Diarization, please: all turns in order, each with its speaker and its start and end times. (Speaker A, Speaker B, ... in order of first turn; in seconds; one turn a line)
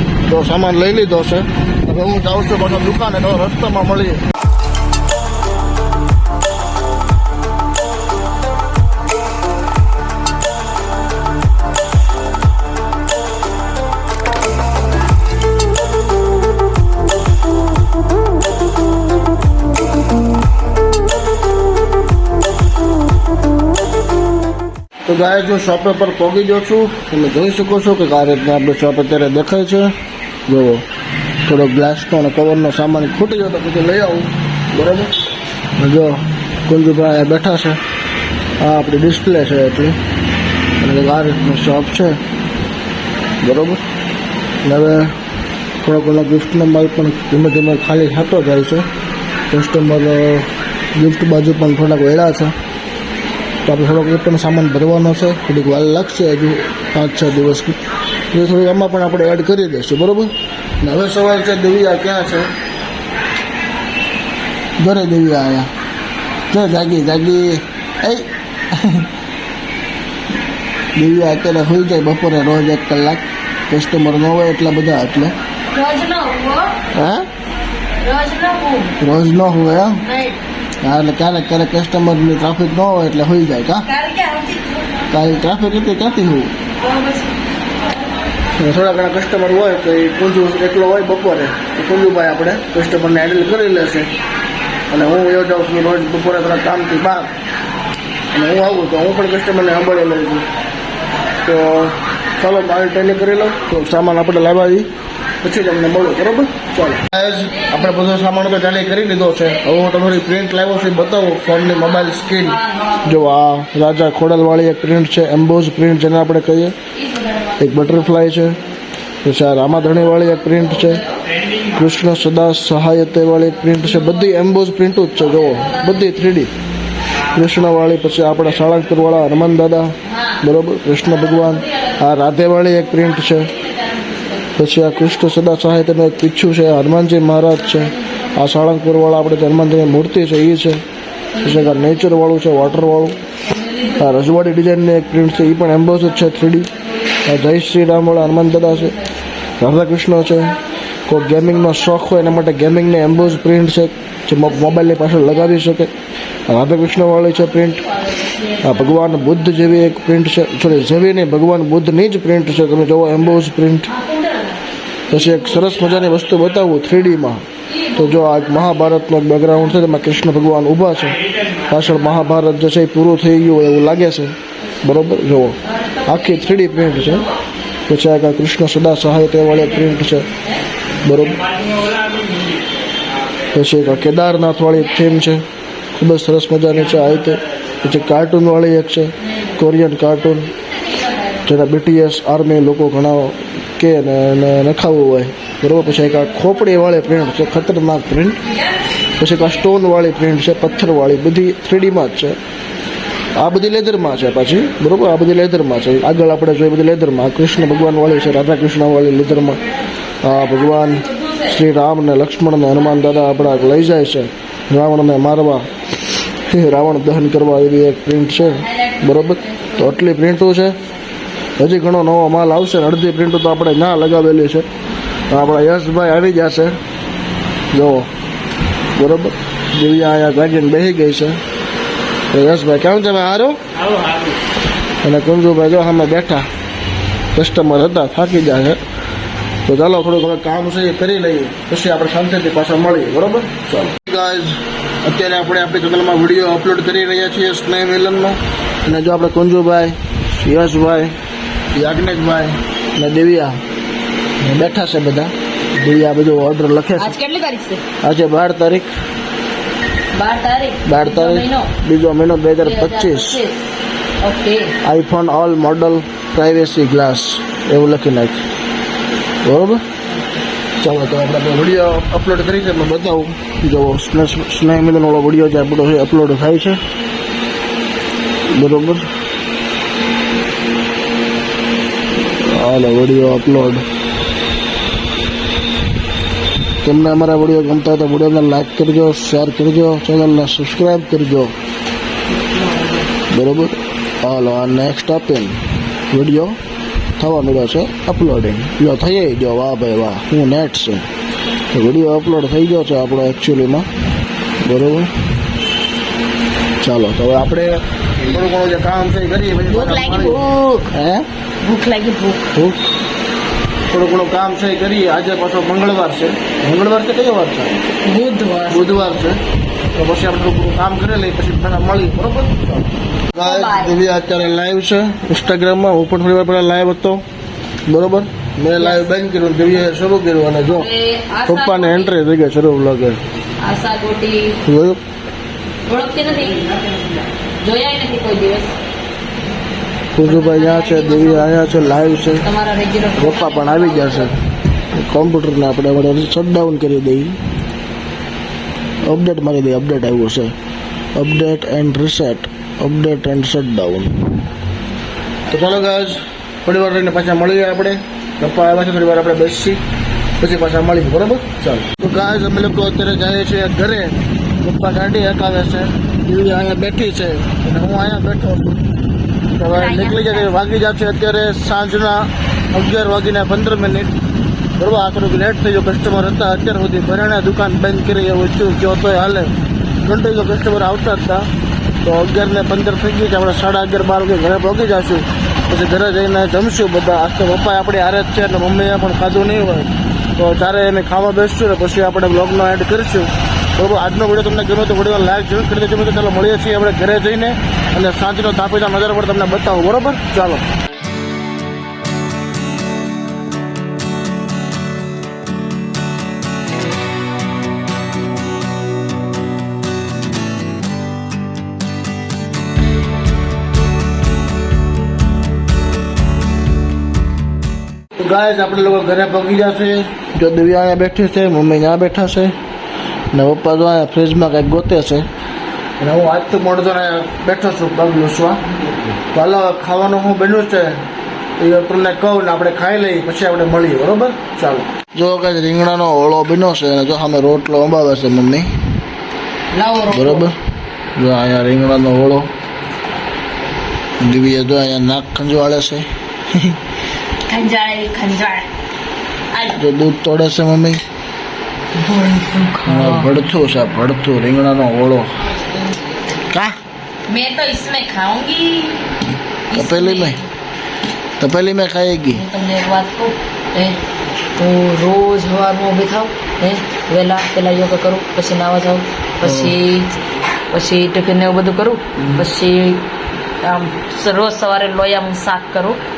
Speaker A: 0.3-4.2
Speaker A: 25.1-29.9
Speaker A: 30.5-30.8
Speaker A: 31.5-35.1
Speaker A: 35.8-37.8
Speaker A: 38.6-40.0
Speaker A: 40.8-42.2
Speaker A: 43.4-43.8
Speaker A: 44.6-45.1
Speaker A: 45.8-48.9
Speaker A: 49.5-52.5
Speaker A: 53.6-57.8
Speaker A: 58.3-62.5
Speaker A: 64.8-65.7
Speaker A: 66.5-69.1
Speaker A: 71.0-75.3
Speaker B: 75.7-76.8
Speaker A: 76.9-77.3
Speaker B: 78.0-79.0
Speaker A: 79.0-80.0
Speaker B: 80.0-80.4
Speaker A: 80.8-83.9
Speaker B: 83.9-85.0
Speaker A: 85.1-86.5
Speaker B: 86.8-87.3
Speaker A: 88.6-94.1
Speaker A: 94.9-97.3
Speaker A: 98.3-100.5
Speaker A: 101.4-104.9
Speaker A: 105.4-116.8
Speaker B: 117.2-117.5
Speaker A: 117.6-118.6
Speaker A: 119.2-121.0
Speaker A: 121.7-126.5
Speaker A: 127.3-133.5
Speaker B: 130.1-130.4
Speaker B: 133.8-134.3
Speaker A: 134.6-140.8
Speaker A: 141.4-143.2
Speaker A: 143.9-146.7
Speaker A: 147.3-149.0
Speaker A: 149.6-155.9
Speaker A: 156.5-157.9
Speaker B: 157.9-158.7
Speaker A: 158.6-163.9
Speaker B: 163.9-164.6
Speaker A: 165.1-167.4
Speaker B: 167.7-168.1
Speaker A: 167.9-177.3
Speaker A: 177.9-180.3
Speaker A: 181.0-181.5
Speaker A: 183.5-185.4
Speaker A: 186.0-190.5
Speaker A: 191.4-198.4
Speaker A: 199.2-202.4
Speaker A: 203.4-209.6
Speaker A: 210.2-215.7
Speaker B: 211.1-211.5
Speaker A: 216.5-220.8
Speaker B: 218.7-219.8
Speaker A: 221.6-224.7
Speaker A: 225.3-226.8
Speaker A: 227.7-228.1
Speaker A: 229.0-231.4
Speaker A: 232.3-233.6
Speaker A: 235.0-236.5
Speaker A: 237.3-238.8
Speaker A: 239.7-251.1
Speaker A: 251.7-253.6
Speaker A: 254.4-257.2
Speaker B: 257.0-257.8
Speaker A: 258.0-258.9
Speaker B: 260.1-261.7
Speaker A: 260.9-263.4
Speaker B: 262.6-263.6
Speaker B: 264.2-264.7
Speaker A: 264.8-268.4
Speaker A: 269.4-269.8
Speaker A: 270.8-276.8
Speaker A: 278.5-279.1
Speaker A: 282.4-283.8
Speaker A: 286.8-291.5
Speaker B: 292.4-293.1
Speaker A: 293.3-295.6
Speaker A: 296.1-296.6
Speaker A: 297.2-301.1
Speaker A: 301.7-303.9
Speaker A: 304.6-305.1
Speaker A: 306.8-311.3
Speaker B: 309.7-310.9
Speaker B: 311.6-312.5
Speaker A: 312.6-312.9
Speaker A: 313.9-317.9
Speaker B: 318.0-319.1
Speaker A: 318.7-319.4
Speaker A: 319.9-327.2
Speaker B: 323.4-324.0
Speaker A: 327.9-330.9
Speaker B: 328.8-329.1
Speaker B: 330.7-332.1
Speaker A: 331.5-333.2
Speaker B: 333.6-334.6
Speaker A: 334.6-335.0
Speaker B: 335.9-338.7
Speaker A: 340.1-342.5
Speaker B: 340.2-341.5
Speaker B: 342.4-344.3
Speaker A: 343.2-344.4
Speaker A: 344.9-347.4
Speaker A: 349.0-350.5
Speaker A: 351.2-354.3
Speaker A: 355.5-359.8
Speaker A: 360.4-368.9
Speaker A: 369.6-374.1
Speaker B: 369.7-370.6
Speaker A: 374.8-381.5
Speaker A: 382.0-400.6
Speaker A: 418.2-422.5
Speaker A: 423.3-425.2
Speaker A: 426.0-428.6
Speaker A: 429.3-431.0
Speaker A: 431.6-438.7
Speaker B: 439.7-440.5
Speaker A: 440.1-440.6
Speaker A: 441.2-442.5
Speaker A: 444.2-446.8
Speaker B: 447.5-448.7
Speaker B: 449.5-449.8
Speaker A: 449.8-451.0
Speaker B: 451.9-453.3
Speaker A: 452.9-455.4
Speaker A: 456.5-456.8
Speaker B: 457.3-459.1
Speaker B: 459.7-460.4
Speaker A: 459.7-460.4
Speaker A: 461.4-462.4
Speaker B: 462.3-464.0
Speaker B: 464.6-470.1
Speaker A: 469.4-469.8
Speaker B: 470.7-473.0
Speaker A: 472.2-472.5
Speaker B: 473.6-476.0